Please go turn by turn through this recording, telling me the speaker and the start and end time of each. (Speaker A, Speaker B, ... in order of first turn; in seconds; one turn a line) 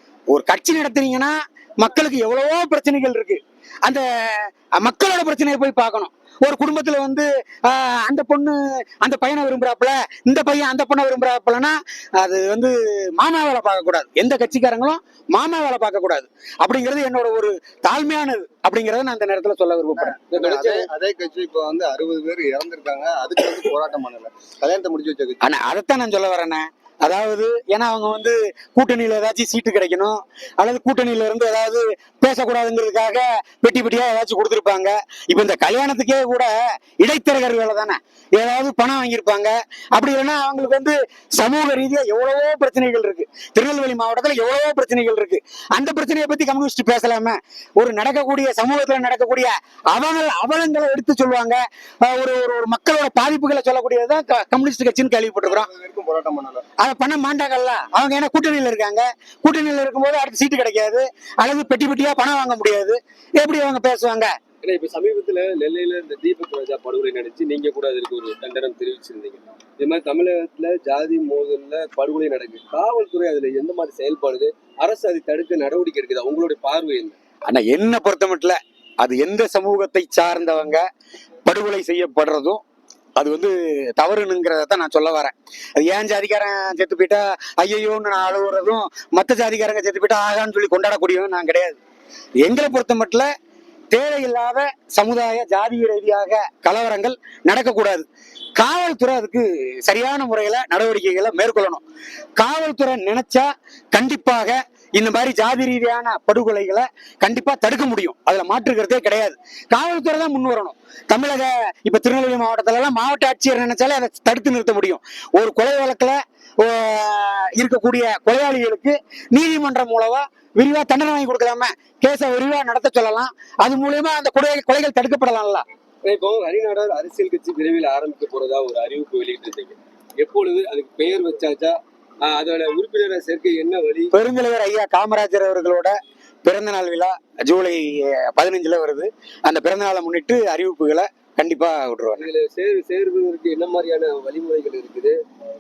Speaker A: 0.3-20.2
Speaker B: 20.0-25.4
Speaker C: 20.3-20.9
Speaker A: 25.4-55.7
Speaker B: 55.5-56.6
Speaker A: 56.8-64.3
Speaker C: 64.6-77.2
Speaker A: 77.5-80.8
Speaker A: 81.5-82.6
Speaker A: 83.2-91.8
Speaker A: 92.4-93.3
Speaker A: 93.9-101.8
Speaker A: 102.4-125.6
Speaker C: 126.0-134.1
Speaker A: 134.1-142.3
Speaker C: 142.2-145.2